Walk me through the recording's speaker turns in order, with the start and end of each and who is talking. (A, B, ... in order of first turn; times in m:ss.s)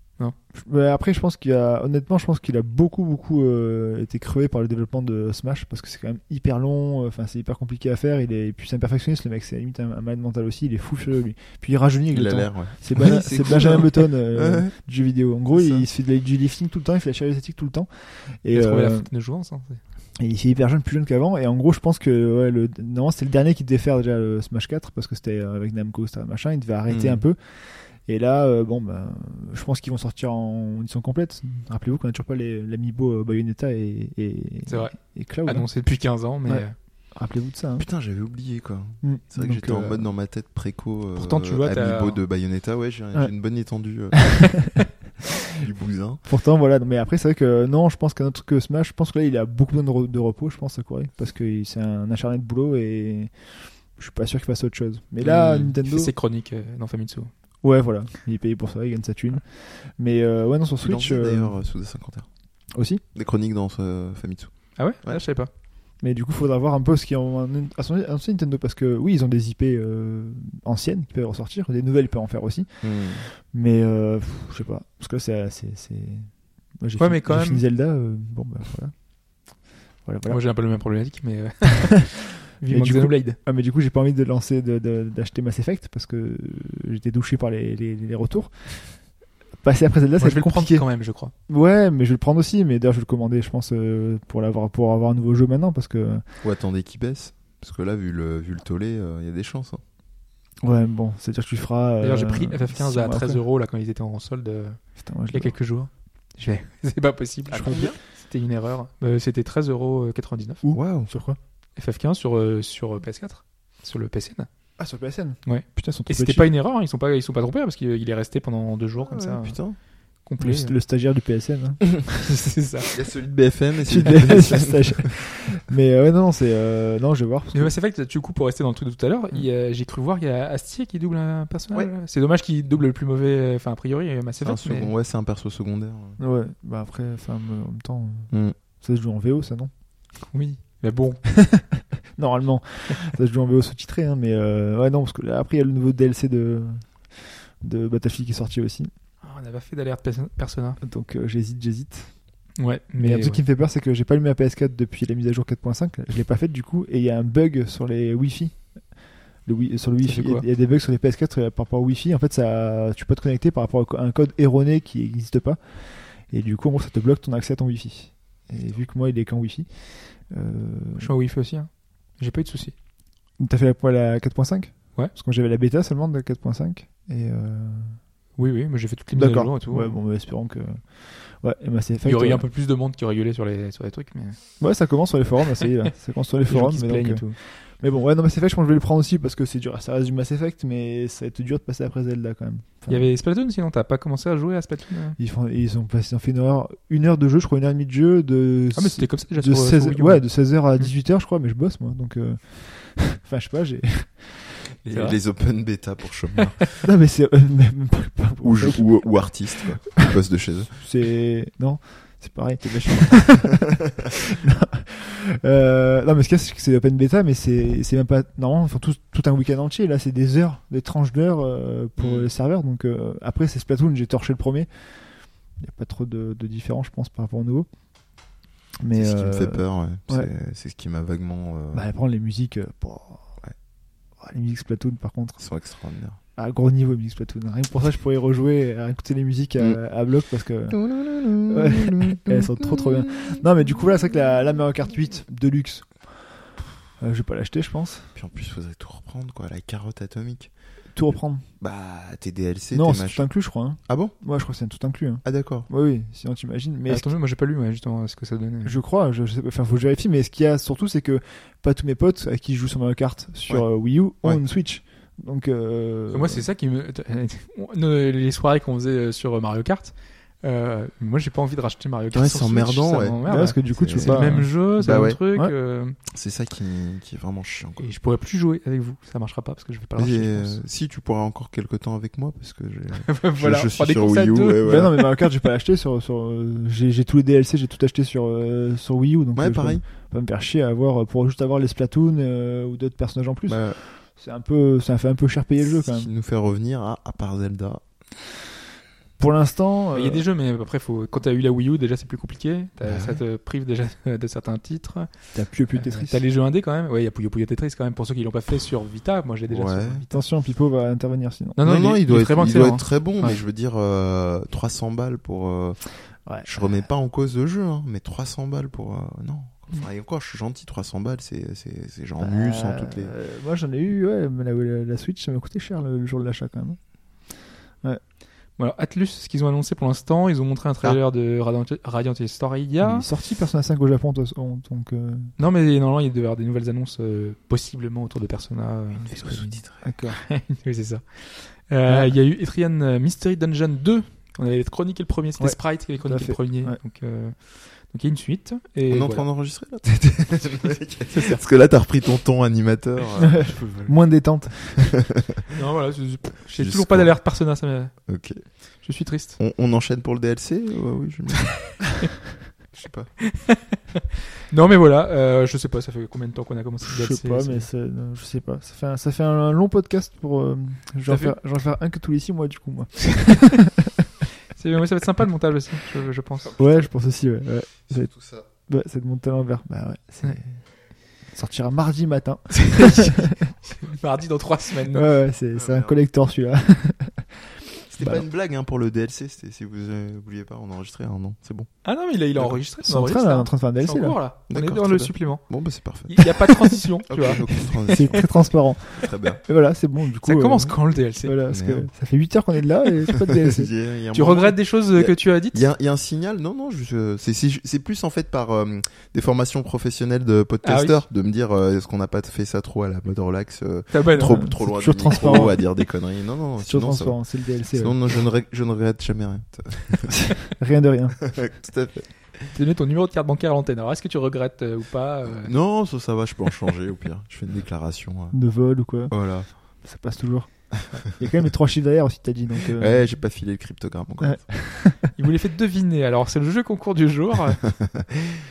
0:00.5-0:19.1 A
0:12.1-0:14.8 B
0:15.5-0:15.9 B
0:18.5-0:19.8 C
0:20.2-0:35.7 A
0:26.9-0:27.2 B
0:34.7-0:36.8 C
0:36.5-0:37.9 A
0:37.8-0:44.9 B
0:39.0-0:40.1 A
0:41.2-0:42.2 C
0:44.3-0:44.8 A
0:45.4-0:46.2 B
0:46.3-0:56.1 A
0:55.2-0:57.3 C
0:55.3-0:55.6 B
0:57.6-1:01.6 A
1:00.8-1:02.3 B
1:02.7-1:03.0 A
1:03.2-1:05.2 B
1:04.8-1:05.5 C
1:06.0-1:19.0 A
1:12.8-1:13.3 B
1:17.0-1:17.6 C
1:20.0-1:20.4 A
1:20.3-1:23.4 C
1:22.7-1:29.1 A
1:29.6-1:30.9 A
1:30.2-1:31.3 C
1:31.5-1:36.2 A
1:36.4-1:39.8 B
1:40.6-1:43.4 A
1:42.0-1:50.6 C
1:45.0-1:45.6 A
1:47.5-1:48.0 B
1:47.5-1:47.9 A
1:50.6-1:51.4 A
1:50.7-1:51.1 B
1:51.8-1:54.5 C
1:54.8-1:56.5 A
1:55.4-2:00.8 C
1:59.0-1:59.8 B
2:00.4-2:02.1 A
2:02.2-2:02.9 C
2:02.9-2:05.1 B
2:03.9-2:07.7 A
2:07.5-2:14.9 C
2:14.4-2:16.2 B
2:16.2-2:19.7 A
2:20.3-2:21.2 C
2:21.4-2:28.9 A
2:29.2-2:30.8 C
2:30.8-2:32.2 A
2:32.6-2:33.4 C
2:33.0-2:38.8 A
2:39.4-2:51.1 A
2:40.1-2:40.4 C
2:51.0-2:52.7 C
2:53.4-2:58.0 A
2:58.4-3:00.0 C
2:59.1-3:02.4 A
3:02.0-3:04.4 C
3:04.6-3:13.1 A
3:06.5-3:07.4 C
3:12.9-3:15.2 C
3:15.2-3:24.5 A
3:18.8-3:20.9 C
3:24.8-3:25.2 C
3:24.9-3:26.7 B
3:26.8-3:29.4 A
3:28.4-3:30.7 B
3:30.8-3:33.5 A
3:32.6-3:33.8 B
3:34.3-3:45.1 A
3:42.0-3:42.3 B
3:45.6-3:47.7 A
3:48.8-3:50.3 A
3:48.9-3:51.8 B
3:51.7-3:53.4 A
3:54.2-3:55.4 A
3:55.4-3:56.2 B
3:56.4-4:00.9 A
4:00.7-4:03.4 B
4:01.5-4:06.5 A
4:07.0-4:08.1 A
4:08.2-4:10.5 B
4:10.9-4:11.4 A
4:11.6-4:13.3 B
4:12.7-4:17.1 A
4:13.9-4:14.1 B
4:15.2-4:15.7 B
4:16.9-4:18.8 C
4:18.6-4:26.5 A
4:26.1-4:36.0 C
4:32.1-4:35.2 B
4:33.3-4:34.6 A
4:36.1-4:37.9 B
4:37.8-4:40.6 C
4:40.0-4:45.1 B
4:43.1-4:44.8 C
4:44.6-4:56.1 A
4:49.3-4:49.8 B
4:53.5-4:53.8 B
4:55.6-4:57.8 B
4:59.2-5:00.2 A
4:59.9-5:05.1 C
5:02.8-5:03.2 B
5:05.3-5:06.2 A
5:05.7-5:10.2 C
5:09.5-5:10.0 B
5:10.1-5:11.6 A
5:11.6-5:13.3 C
5:11.6-5:23.1 B
5:16.3-5:16.7 A
5:22.2-5:26.8 A
5:28.6-5:33.1 C
5:32.8-5:35.3 A
5:35.4-5:39.5 C
5:39.1-5:39.8 B
5:39.3-5:40.2 A
5:40.1-5:49.2 C
5:41.9-5:42.1 A
5:45.4-5:46.8 A
5:48.9-5:54.0 B
5:51.1-5:51.4 C
5:53.2-5:54.9 A
5:54.8-5:55.2 B
5:55.5-5:58.0 C
5:56.5-5:57.2 B
5:58.1-5:58.5 B
5:58.8-5:59.4 C
5:59.4-6:01.8 B
6:02.7-6:03.1 B
6:03.3-6:03.8 C
6:04.5-6:07.7 C
6:06.8-6:13.7 A
6:11.1-6:11.4 C
6:14.5-6:16.6 C
6:16.6-6:20.7 A
6:17.9-6:18.5 B
6:21.2-6:23.5 A
6:22.6-6:23.1 C
6:23.6-6:25.1 C
6:24.9-6:27.4 A
6:25.5-6:26.0 B
6:27.9-6:31.8 B
6:28.0-6:28.2 A
6:31.8-6:38.0 C
6:32.8-6:34.2 A
6:34.5-6:36.3 B
6:37.1-6:39.4 B
6:37.9-6:43.7 A
6:40.2-6:41.4 C
6:41.5-6:41.9 B
6:43.1-7:00.3 B
6:44.1-6:45.7 C
6:50.6-6:51.0 C
6:53.9-6:54.4 C
6:54.2-6:55.7 A
6:56.6-6:58.2 A
7:00.2-7:01.2 A
7:01.2-7:02.5 B
7:02.5-7:05.5 C
7:05.4-7:08.4 B
7:08.3-7:09.1 A
7:09.1-7:09.5 B
7:09.8-7:13.1 A
7:12.7-7:14.6 B
7:14.2-7:15.0 A
7:15.1-7:17.6 C
7:17.8-7:18.4 B